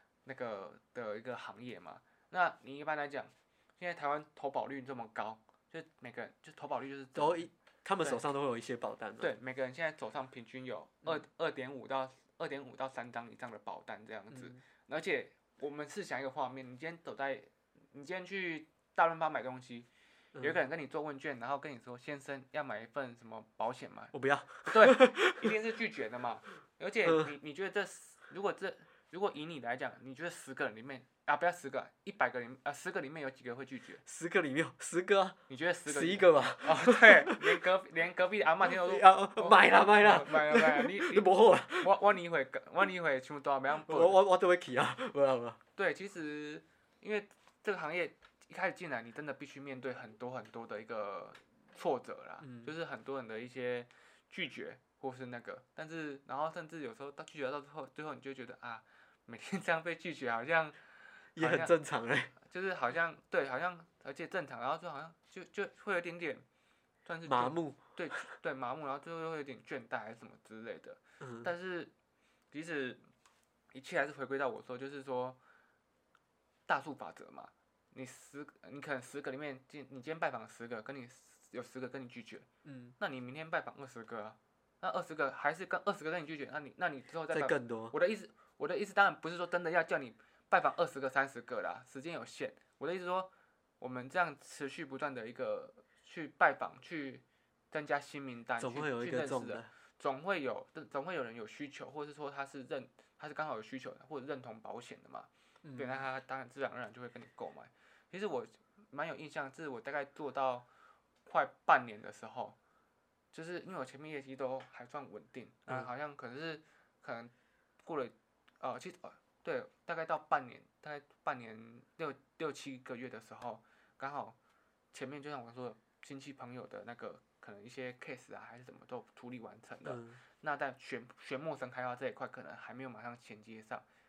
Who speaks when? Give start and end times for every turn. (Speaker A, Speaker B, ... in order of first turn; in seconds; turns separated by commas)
Speaker A: 0.2-7.5, Speaker B: 7.2-9.3, Speaker A: 9.2-24.1, Speaker B: 14.3-14.6, Speaker B: 24.1-25.6, Speaker A: 24.6-34.0, Speaker B: 27.0-27.3, Speaker B: 34.0-37.6, Speaker A: 35.5-41.3, Speaker B: 38.6-42.0, Speaker A: 41.8-44.2, Speaker B: 43.9-45.6, Speaker A: 45.8-61.7, Speaker B: 52.4-52.7, Speaker B: 61.4-62.3, Speaker A: 62.4-66.5, Speaker A: 67.0-71.9, Speaker B: 67.3-67.8, Speaker B: 71.2-71.5, Speaker A: 72.5-73.0, Speaker A: 73.7-75.4, Speaker A: 76.7-82.5, Speaker B: 82.7-83.0, Speaker A: 83.0-110.7, Speaker B: 87.3-88.0, Speaker B: 98.6-99.7, Speaker B: 105.6-106.0, Speaker A: 111.3-112.6, Speaker A: 113.3-117.3, Speaker A: 117.8-124.4, Speaker A: 124.9-133.8, Speaker B: 129.8-130.2